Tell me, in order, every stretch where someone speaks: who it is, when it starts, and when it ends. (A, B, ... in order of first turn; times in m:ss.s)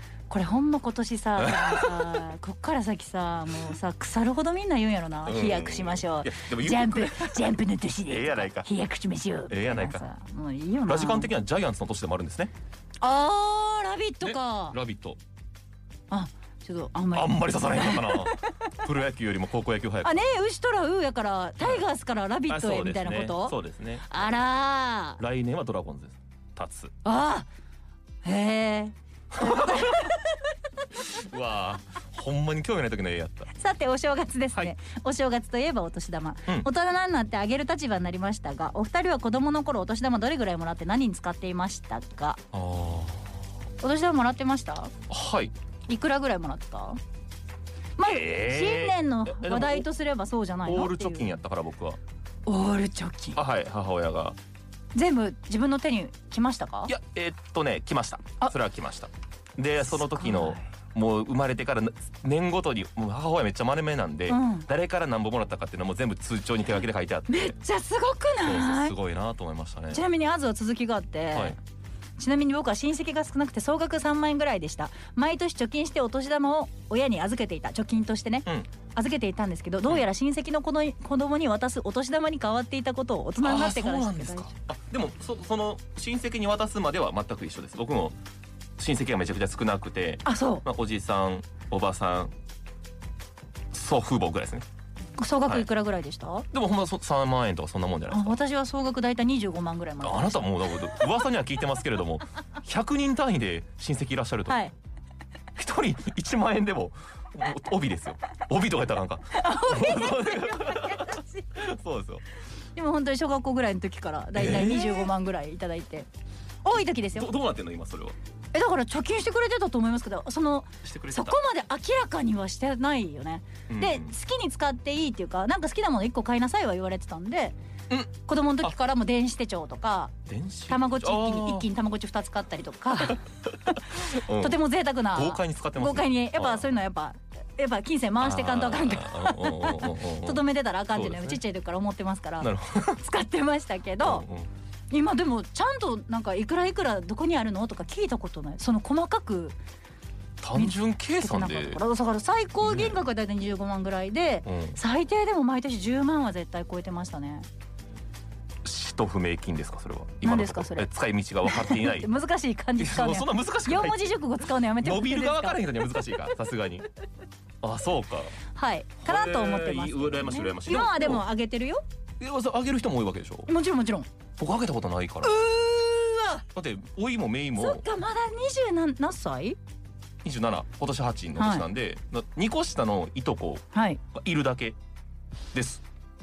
0:00.3-0:11.3 A
0:01.4-0:02.2 B
0:05.3-0:07.5 B
0:08.1-0:08.7 B
0:09.5-0:10.1 B
0:10.9-0:12.5 B
0:13.0-0:14.8 A
0:14.2-0:15.2 B
0:16.1-0:18.5 A
0:17.1-0:20.3 B
0:20.0-0:23.6 A
0:21.6-0:21.9 B
0:22.5-0:24.4 B
0:24.1-0:25.2 A
0:25.2-0:26.9 B
0:27.0-0:27.5 A
0:28.2-0:30.4 A
0:29.3-0:30.2 B
0:31.0-0:33.5 B
0:33.6-0:42.4 A
0:42.5-0:43.4 B
0:43.8-0:44.9 A
0:45.1-0:45.5 B
0:45.9-0:47.0 A
0:48.0-0:51.3 A
0:48.0-0:49.9 B
0:50.6-0:52.0 B
0:52.5-0:53.4 A
0:53.4-0:54.4 B
0:55.0-0:56.9 A
0:56.9-1:07.6 B
0:59.9-1:00.6 A
1:04.3-1:04.7 A
1:07.3-1:09.0 A
1:08.4-1:10.0 B
1:09.9-1:11.6 A
1:12.2-1:24.5 A
1:23.4-1:28.2 B
1:28.8-1:32.3 B
1:30.2-1:30.6 A
1:33.7-1:34.7 B
1:35.2-1:36.5 A
1:36.5-1:38.4 B
1:38.1-1:40.5 A
1:40.0-1:44.6 B
1:44.5-1:44.7 A
1:45.6-1:52.2 B
1:49.3-1:51.5 A
1:52.8-1:56.1 A
1:54.4-1:55.1 B
1:56.6-1:57.3 A
1:57.1-1:58.2 B
1:58.5-2:07.6 A
2:00.8-2:01.4 B
2:03.7-2:04.1 B
2:07.9-2:08.7 B
2:08.3-2:10.1 A
2:10.3-2:11.7 B
2:10.7-2:13.2 A
2:13.1-2:14.6 B
2:13.9-2:24.3 A
2:15.1-2:16.7 B
2:18.2-2:20.4 B
2:20.9-2:21.4 B
2:22.4-2:23.0 B
2:24.0-2:24.5 B
2:24.9-2:29.6 A
2:30.4-2:31.8 B
2:30.6-2:37.5 A
2:32.6-2:33.0 B
2:34.4-2:34.8 B
2:38.6-2:42.1 B
2:40.2-2:40.9 A
2:41.4-2:45.6 A
2:42.8-2:46.8 B
2:47.6-2:48.3 B
2:48.6-2:51.8 A
2:49.0-2:51.2 B
2:52.2-2:53.5 B
2:53.5-2:54.1 A
2:54.4-2:55.4 B
2:55.2-2:56.4 A
2:56.5-2:57.8 B
2:57.6-2:59.6 A
3:00.2-3:04.8 B
3:01.4-3:01.7 A
3:03.7-3:04.0 A
3:05.5-3:05.8 B